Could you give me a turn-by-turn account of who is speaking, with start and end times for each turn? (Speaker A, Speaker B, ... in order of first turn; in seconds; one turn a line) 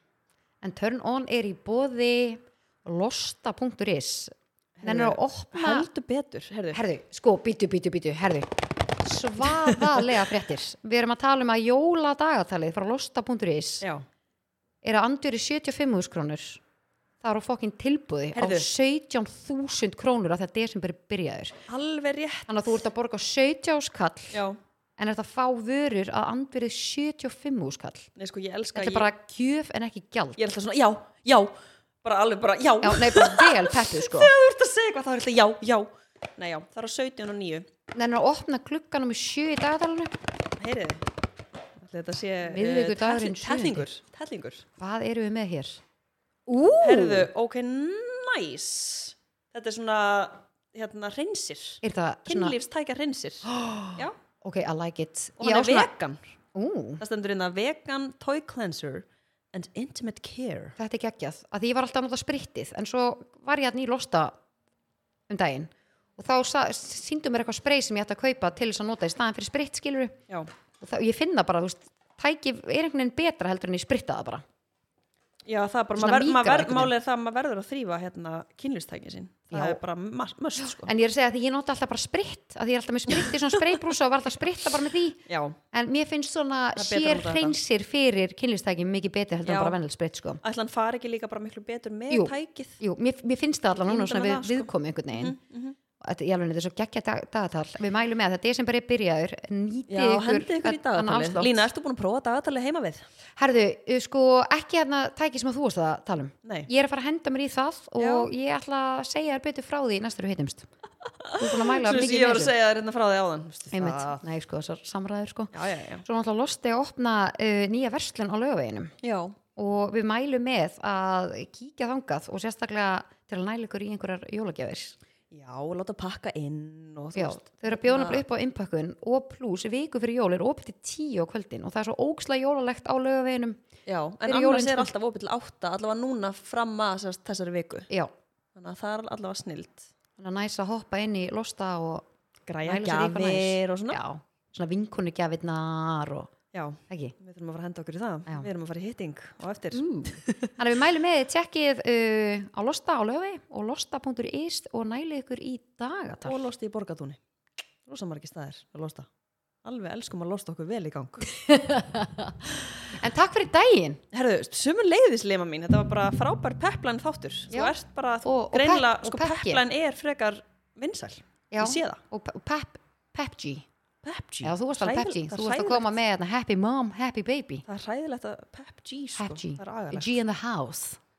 Speaker A: 0.6-5.9
Speaker B: 4.8-6.8
Speaker A: 6.7-13.8
Speaker B: 9.4-10.0
Speaker A: 14.8-16.6
Speaker A: 17.2-21.6
Speaker B: 18.3-18.7
Speaker B: 21.7-22.5
Speaker A: 22.5-24.4
Speaker B: 24.3-24.6
Speaker A: 25.0-28.1
Speaker B: 28.1-29.1
Speaker A: 28.8-30.4
Speaker B: 30.4-37.6
Speaker A: 32.8-34.3
Speaker A: 37.9-40.1
Speaker B: 40.6-41.1
Speaker B: 41.7-44.6
Speaker A: 42.4-43.9
Speaker A: 44.8-45.8
Speaker A: 46.5-47.3
Speaker B: 46.8-54.1
Speaker A: 51.8-52.5
Speaker A: 53.4-55.9
Speaker B: 55.4-56.3
Speaker A: 56.5-57.0
Speaker B: 57.0-60.8
Speaker A: 60.8-64.3
Speaker A: 65.3-70.2
Speaker A: 70.8-74.4
Speaker B: 75.4-80.9
Speaker A: 76.0-76.9
Speaker A: 79.5-79.8
Speaker A: 80.6-90.4
Speaker B: 85.3-85.6
Speaker B: 86.8-87.6
Speaker B: 89.4-89.8
Speaker B: 90.4-92.8
Speaker A: 92.1-95.3
Speaker B: 93.8-95.8
Speaker A: 96.0-101.7
Speaker B: 99.9-103.0
Speaker A: 103.4-110.7
Speaker B: 108.0-108.3
Speaker B: 111.1-114.2
Speaker A: 111.3-112.5
Speaker A: 113.7-118.9
Speaker B: 115.5-116.0
Speaker B: 119.0-119.3
Speaker A: 119.5-125.0
Speaker B: 125.3-128.2
Speaker A: 127.1-133.6
Speaker B: 133.8-137.9
Speaker A: 134.2-134.9
Speaker B: 138.5-139.9
Speaker A: 140.2-142.1
Speaker B: 142.5-144.0
Speaker A: 142.6-146.3
Speaker B: 146.5-150.5
Speaker A: 146.9-147.1
Speaker A: 149.7-156.4
Speaker B: 156.2-157.2
Speaker B: 157.8-159.1
Speaker B: 159.6-161.3
Speaker A: 161.3-162.3
Speaker A: 162.9-164.0
Speaker B: 164.1-172.0
Speaker A: 167.5-169.6
Speaker A: 171.5-173.7
Speaker B: 174.0-176.0
Speaker A: 174.4-177.6
Speaker B: 177.7-180.2
Speaker A: 179.2-181.0